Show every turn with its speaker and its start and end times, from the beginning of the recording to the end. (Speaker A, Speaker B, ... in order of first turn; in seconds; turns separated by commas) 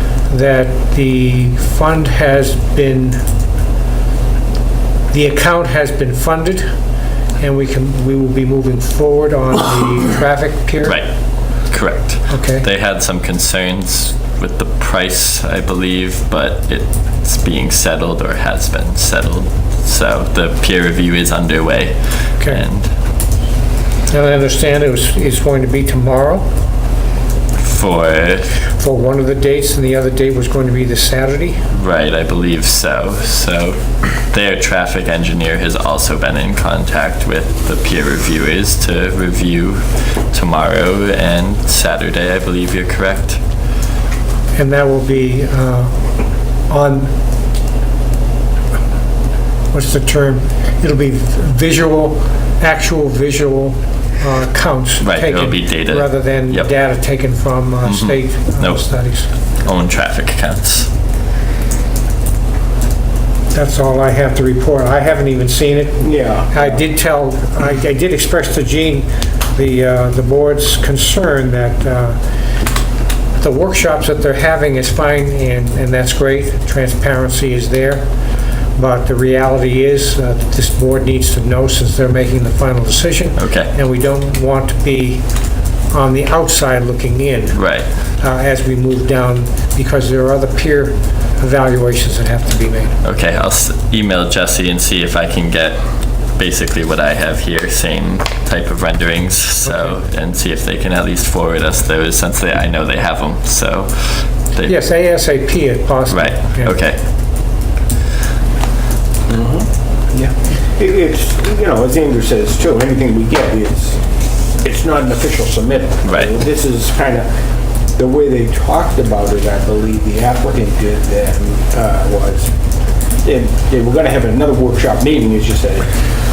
Speaker A: 0.3-3.2, Speaker A: 5.1-6.7, Speaker A: 7.4-11.0, Speaker B: 11.7-22.9, Speaker A: 12.3-12.7, Speaker A: 24.1-26.5, Speaker B: 27.6-28.6, Speaker A: 28.6-31.7, Speaker B: 31.7-43.4, Speaker A: 44.5-46.0, Speaker A: 46.7-47.1, Speaker A: 49.7-59.3, Speaker B: 55.0-56.7, Speaker B: 57.9-58.9, Speaker B: 59.6-60.9, Speaker A: 63.5-72.2, Speaker C: 66.0-66.8, Speaker A: 73.4-78.1, Speaker A: 78.8-85.2, Speaker B: 83.4-83.7, Speaker A: 85.9-87.6, Speaker B: 87.5-87.9, Speaker A: 88.2-92.9, Speaker B: 93.0-95.8, Speaker B: 96.3-104.7, Speaker A: 104.7-106.7, Speaker B: 106.1-107.0, Speaker C: 109.3-114.0, Speaker C: 114.6-117.3, Speaker B: 116.0-116.3, Speaker C: 118.0-122.5, Speaker C: 123.2-126.0